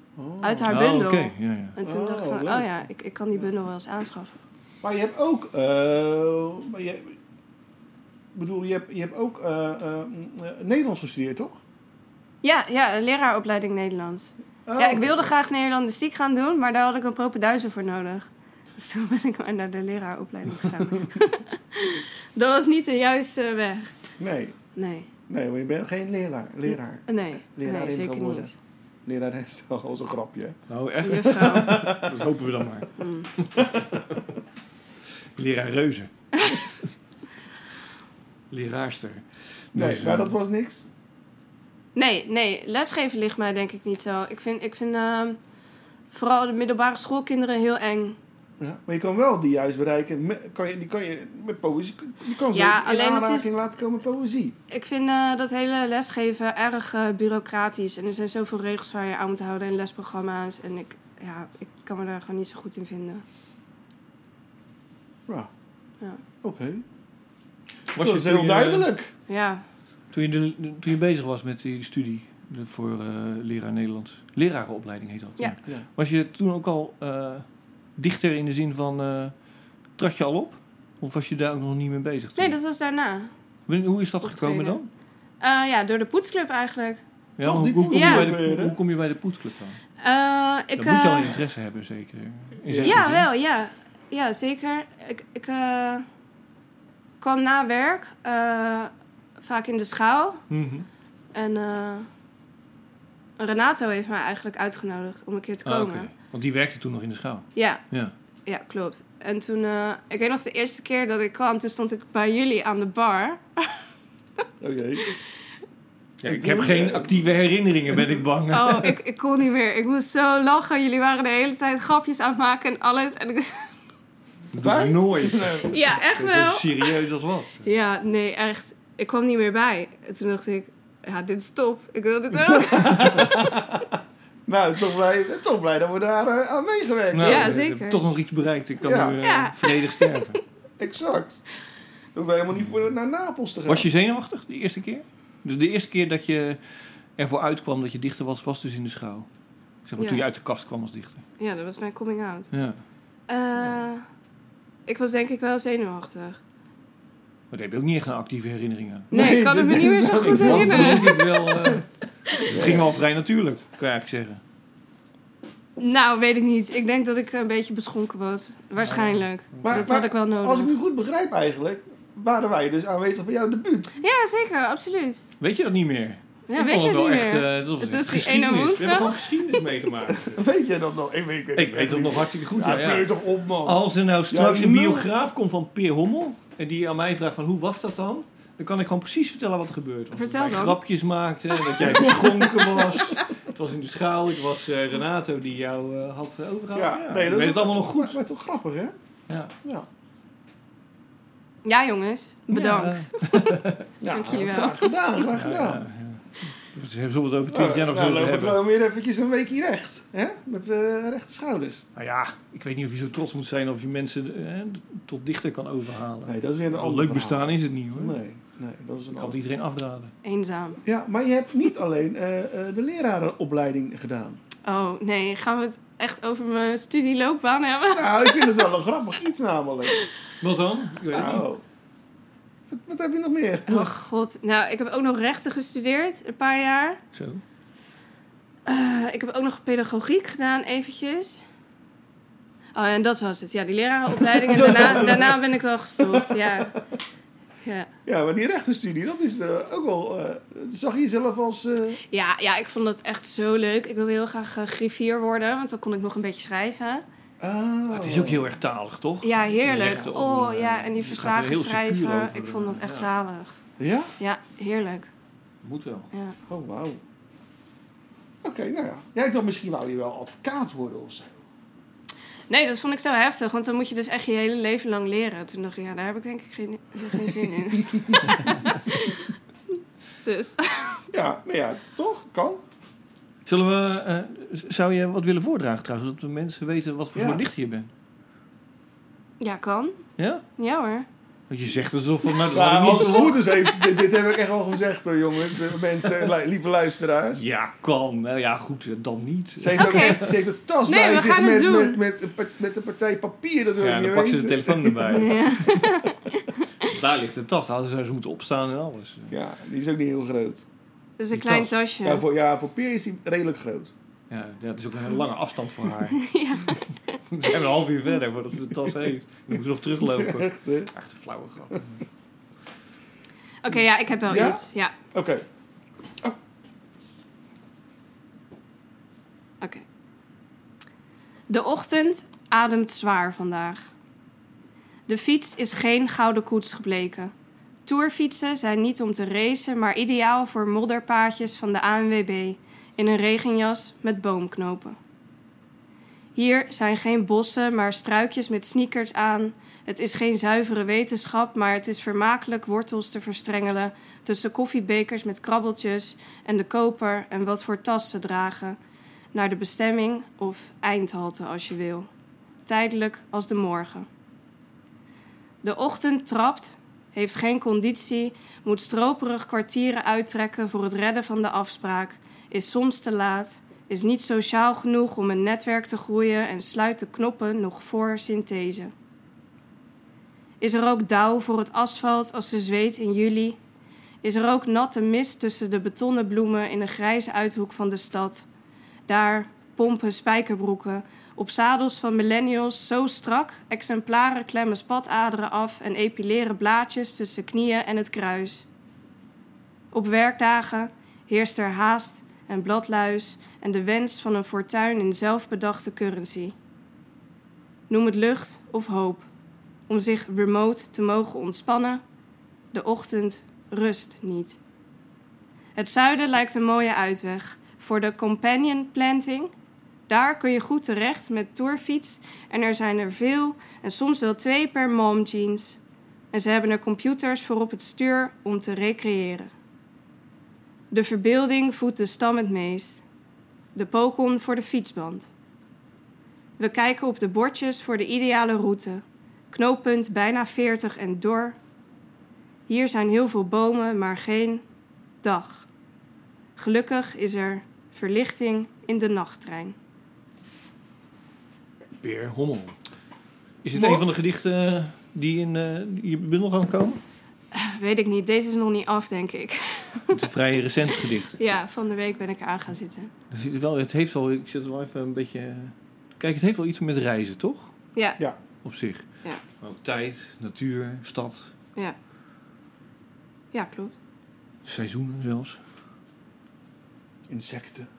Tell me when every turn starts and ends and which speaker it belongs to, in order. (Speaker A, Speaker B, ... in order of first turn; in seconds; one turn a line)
Speaker A: 0.2-0.8
Speaker B: 0.4-4.3
Speaker C: 0.7-1.8
Speaker A: 1.8-2.8
Speaker A: 4.8-7.2
Speaker A: 8.3-11.6
Speaker B: 12.4-23.9
Speaker A: 14.7-15.3
Speaker A: 20.5-21.2
Speaker A: 24.2-24.6
Speaker B: 24.8-25.1
Speaker A: 25.3-28.5
Speaker B: 27.1-28.5
Speaker A: 29.1-30.6
Speaker C: 30.7-34.2
Speaker B: 31.0-31.8
Speaker A: 31.1-32.2
Speaker B: 33.0-33.3
Speaker A: 33.6-34.0
Speaker C: 35.4-36.1
Speaker C: 38.5-40.3
Speaker A: 39.7-40.9
Speaker B: 42.0-45.4
Speaker B: 46.1-48.2
Speaker A: 48.6-54.5
Speaker B: 52.5-53.5
Speaker B: 54.7-63.2
Speaker A: 66.4-66.8
Speaker C: 67.9-68.9
Speaker A: 68.0-69.1
Speaker B: 69.3-69.6
Speaker C: 70.1-77.4
Speaker C: 78.0-79.3
Speaker C: 80.0-82.6
Speaker B: 82.3-83.3
Speaker C: 83.7-84.9
Speaker B: 84.2-84.8
Speaker B: 85.4-87.0
Speaker C: 87.4-89.8
Speaker A: 87.4-88.8
Speaker B: 87.9-88.3
Speaker B: 90.0-91.3
Speaker C: 90.8-93.3
Speaker A: 92.6-93.0
Speaker B: 92.8-96.0
Speaker B: 97.2-100.4
Speaker C: 100.5-100.8
Speaker B: 101.3-102.1
Speaker B: 103.4-106.1
Speaker C: 105.6-108.1
Speaker B: 107.5-107.8
Speaker B: 108.5-113.8
Speaker A: 114.6-115.1
Speaker C: 116.2-119.0
Speaker A: 116.2-117.3
Speaker B: 118.5-123.7
Speaker C: 124.5-127.6
Speaker A: 124.6-125.7
Speaker B: 125.7-126.9
Speaker B: 127.6-133.4
Speaker A: 132.4-137.6
Speaker C: 137.1-140.4
Speaker B: 137.2-138.0
Speaker A: 138.8-139.2
Speaker B: 139.2-140.3
Speaker A: 140.8-141.4
Speaker A: 142.1-143.9
Speaker C: 143.7-146.6
Speaker C: 147.2-149.3
Speaker C: 149.8-151.2
Speaker B: 150.0-150.2
Speaker B: 151.4-152.5
Speaker C: 152.5-152.8
Speaker B: 153.3-154.0
Speaker B: 154.9-156.4
Speaker C: 157.5-159.1
Speaker B: 159.1-161.3
Speaker A: 159.1-161.8
Speaker C: 160.2-161.9
Speaker C: 162.4-164.4
Speaker A: 162.4-162.9
Speaker B: 165.8-170.7
Speaker C: 168.8-169.8
Speaker A: 169.6-173.9
Speaker B: 174.0-175.2
Speaker C: 175.4-180.4
Speaker B: 176.5-179.2
Speaker A: 180.2-185.1
Speaker C: 181.6-198.2
Speaker B: 190.1-190.8
Speaker A: 191.8-192.9
Speaker A: 196.7-198.9
Speaker B: 201.6-204.9
Speaker C: 202.5-203.9
Speaker A: 204.0-205.8
Speaker C: 205.3-208.6
Speaker A: 207.5-211.8
Speaker C: 211.9-218.2
Speaker A: 216.2-219.4
Speaker C: 219.1-220.1
Speaker B: 220.2-220.8
Speaker A: 220.8-224.4
Speaker B: 224.6-228.7
Speaker A: 227.9-230.0
Speaker C: 230.4-231.4
Speaker A: 231.1-231.6
Speaker A: 232.7-233.9
Speaker B: 233.7-237.0
Speaker C: 237.1-237.4
Speaker B: 238.7-241.4
Speaker B: 242.7-246.7
Speaker A: 244.3-246.8
Speaker B: 247.6-247.9
Speaker A: 248.1-252.0
Speaker B: 252.1-257.0
Speaker A: 257.4-258.5
Speaker C: 257.9-263.1
Speaker B: 259.2-263.6
Speaker A: 263.8-264.1
Speaker B: 264.2-265.1
Speaker C: 265.6-266.1
Speaker A: 266.5-267.0
Speaker A: 268.4-271.4
Speaker B: 272.5-279.3
Speaker A: 277.1-278.3
Speaker B: 280.2-281.0
Speaker A: 281.1-282.6
Speaker C: 283.4-287.9
Speaker A: 287.1-287.4
Speaker B: 289.4-290.0
Speaker C: 290.2-290.4
Speaker B: 290.6-291.1
Speaker C: 291.5-293.5
Speaker A: 292.5-297.4
Speaker C: 297.3-300.3
Speaker A: 299.6-305.4
Speaker B: 299.8-300.2
Speaker B: 300.9-302.0
Speaker C: 303.8-305.4
Speaker B: 305.1-306.9
Speaker C: 306.9-309.4
Speaker A: 309.3-310.6
Speaker B: 311.2-312.2
Speaker A: 311.4-313.9
Speaker C: 314.3-316.2
Speaker B: 316.2-317.2
Speaker C: 317.3-322.0
Speaker A: 320.0-320.9
Speaker B: 323.6-324.9
Speaker A: 324.2-325.4
Speaker B: 331.5-333.9
Speaker B: 335.1-337.3
Speaker B: 337.9-345.0
Speaker B: 346.4-358.8
Speaker B: 359.3-362.1
Speaker B: 362.6-364.1
Speaker B: 365.6-378.9
Speaker B: 380.6-383.6
Speaker B: 384.2-388.5
Speaker B: 389.1-398.6
Speaker B: 399.9-406.6
Speaker B: 407.9-409.2
Speaker B: 409.9-412.0
Speaker B: 412.7-414.6
Speaker B: 415.8-419.5
Speaker B: 420.1-425.8
Speaker B: 426.3-429.5
Speaker B: 430.9-433.0
Speaker B: 433.7-435.3
Speaker B: 436.6-441.6
Speaker B: 442.7-444.6
Speaker B: 445.2-445.7
Speaker B: 446.6-449.8
Speaker C: 452.0-452.8
Speaker C: 453.6-457.0
Speaker B: 457.5-460.2
Speaker C: 460.1-461.4
Speaker B: 461.0-463.1
Speaker C: 463.3-467.7
Speaker C: 468.6-469.1
Speaker C: 469.6-471.5
Speaker B: 473.5-473.9
Speaker C: 474.6-475.6
Speaker A: 477.3-477.9